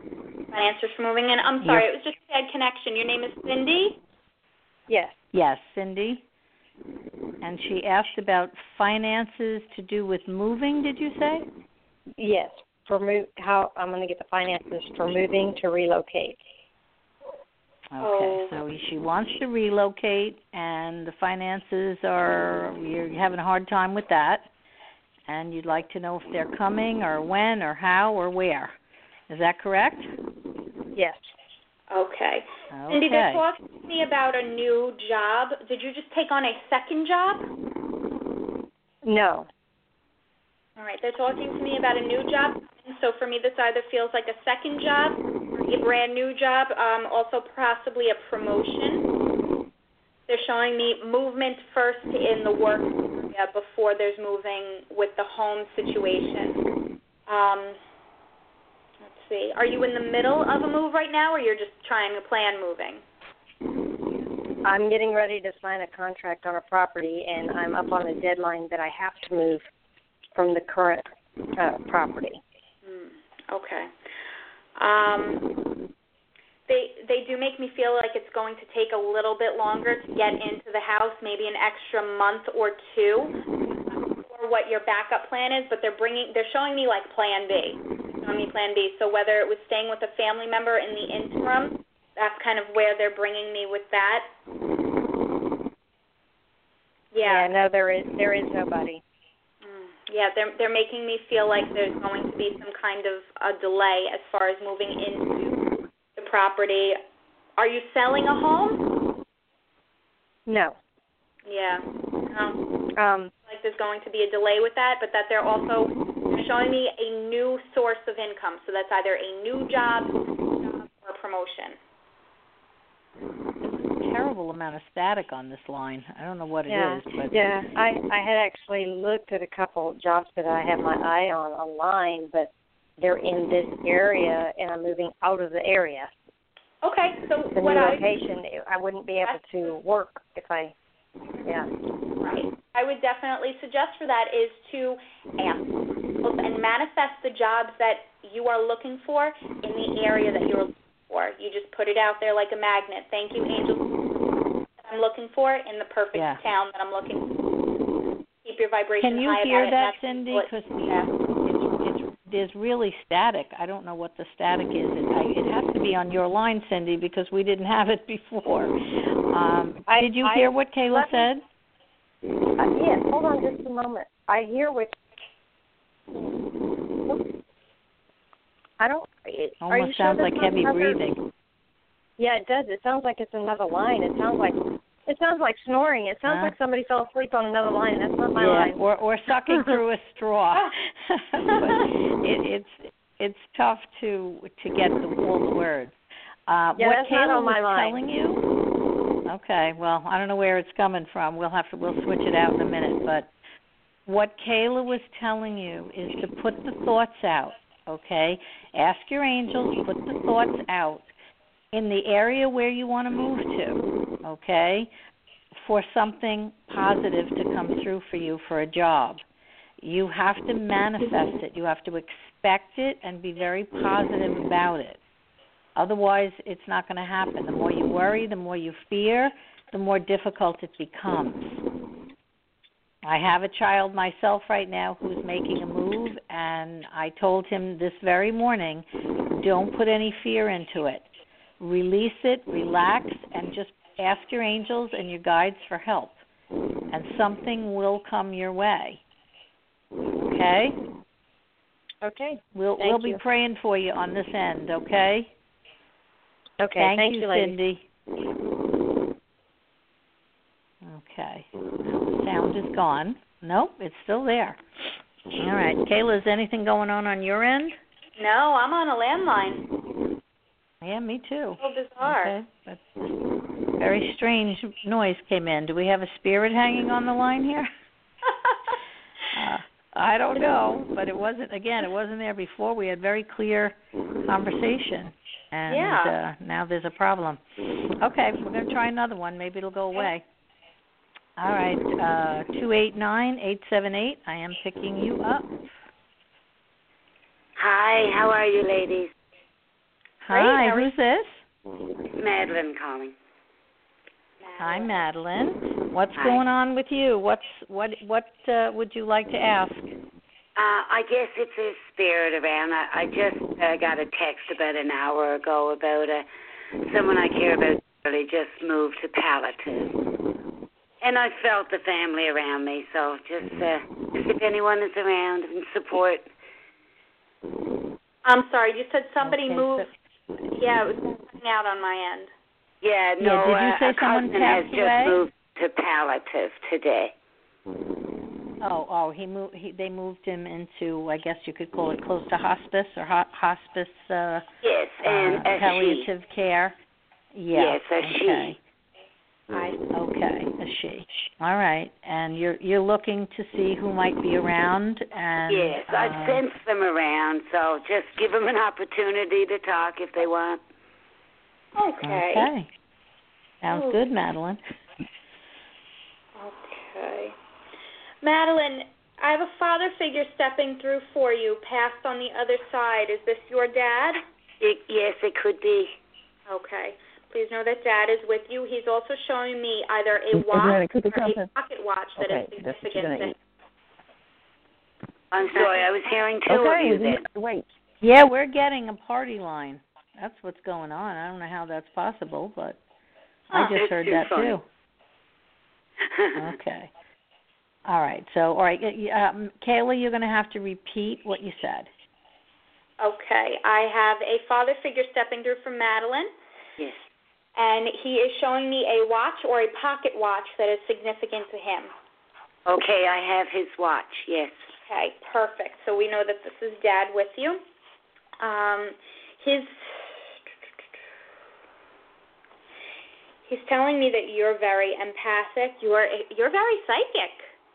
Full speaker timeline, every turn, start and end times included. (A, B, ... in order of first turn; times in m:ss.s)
0:00.5-0:04.0 A
0:04.9-0:05.2 B
0:05.3-0:06.2 C
0:07.4-0:11.5 C
0:12.2-0:16.4 B
0:17.9-0:24.5 C
0:18.0-0:18.5 A
0:25.3-0:28.8 C
0:29.3-0:30.1 C
0:31.0-0:31.2 B
0:31.9-0:37.5 A
0:32.7-0:33.4 C
0:39.0-0:39.5 B
0:40.8-0:49.2 A
0:50.3-0:56.6 A
0:57.3-0:57.8 A
0:59.0-1:03.0 A
1:04.6-1:09.7 B
1:10.3-1:12.4 B
1:12.8-1:13.9 A
1:14.8-1:15.5 A
1:16.7-1:23.4 A
1:24.2-1:34.3 A
1:37.1-1:37.5 A
1:37.2-1:39.0 B
1:39.6-1:45.6 A
1:46.2-1:47.0 A
1:47.6-1:48.9 A
1:50.5-1:50.8 B
1:51.5-1:52.6 A
1:53.0-1:53.3 B
1:53.5-2:00.2 A
2:01.0-2:01.8 A
2:03.7-2:07.5 C
2:06.7-2:16.1 B
2:16.8-2:18.0 A
2:17.6-2:20.7 B
2:22.2-2:34.2 A
2:34.8-2:37.4 A
2:36.1-2:36.4 C
2:38.4-2:41.1 A
2:39.0-2:48.7 C
2:49.3-2:51.4 C
2:49.9-2:51.3 B
2:52.6-2:55.0 B
2:58.8-3:01.0 B
2:59.6-3:01.2 C
3:02.2-3:08.8 B
3:06.3-3:06.5 C
3:08.4-3:15.9 C
3:16.5-3:18.4 C
3:16.8-3:18.0 B
3:19.3-3:23.3 C
3:24.1-3:31.1 C
3:31.7-3:34.9 C
3:35.6-3:39.2 C
3:39.8-3:45.0 C
3:45.8-3:51.6 C
3:53.0-4:06.2 C
4:06.9-4:09.0 C
4:10.3-4:10.8 C
4:12.0-4:13.2 B
4:12.5-4:15.3 C
4:16.6-4:17.6 B
4:16.8-4:17.8 C
4:20.8-4:24.6 C
4:25.4-4:27.8 C
4:28.2-4:29.7 A
4:30.8-4:32.8 C
4:31.6-4:32.4 A
4:33.8-4:37.7 C
4:38.3-4:38.5 A
4:39.3-4:47.4 C
4:45.7-4:46.1 A
4:48.0-4:50.2 C
4:51.4-4:55.6 C
4:57.6-4:59.1 D
5:00.2-5:01.4 C
5:00.3-5:00.9 A
5:02.2-5:03.2 D
5:04.4-5:04.9 A
5:04.6-5:09.9 C
5:06.2-5:06.4 D
5:10.6-5:16.3 D
5:16.9-5:19.9 D
5:21.0-5:26.3 D
5:28.2-5:29.9 A
5:29.2-5:29.9 C
5:30.5-5:32.3 A
5:32.8-5:37.1 D
5:33.2-5:35.2 C
5:38.6-5:44.5 C
5:44.6-5:46.1 D
5:45.0-5:46.8 C
5:47.3-5:48.6 C
5:47.5-5:48.6 D
5:49.9-5:56.4 C
5:55.5-6:00.6 D
6:01.8-6:02.5 A
6:02.0-6:02.7 C
6:03.6-6:04.6 C
6:06.4-6:07.4 A
6:08.2-6:14.2 A
6:14.6-6:15.9 D
6:16.5-6:23.3 A
6:20.3-6:21.5 E
6:22.2-6:23.4 E
6:25.3-6:27.2 D
6:25.4-6:25.9 E
6:26.5-6:27.7 E
6:28.0-6:32.8 C
6:33.5-6:34.6 D
6:33.5-6:34.6 C
6:36.4-6:36.9 C
6:37.9-6:41.9 C
6:43.0-6:46.3 A
6:47.6-6:51.9 A
6:52.7-6:54.6 D
6:54.9-6:57.6 A
6:58.4-7:00.4 A
7:03.5-7:07.5 A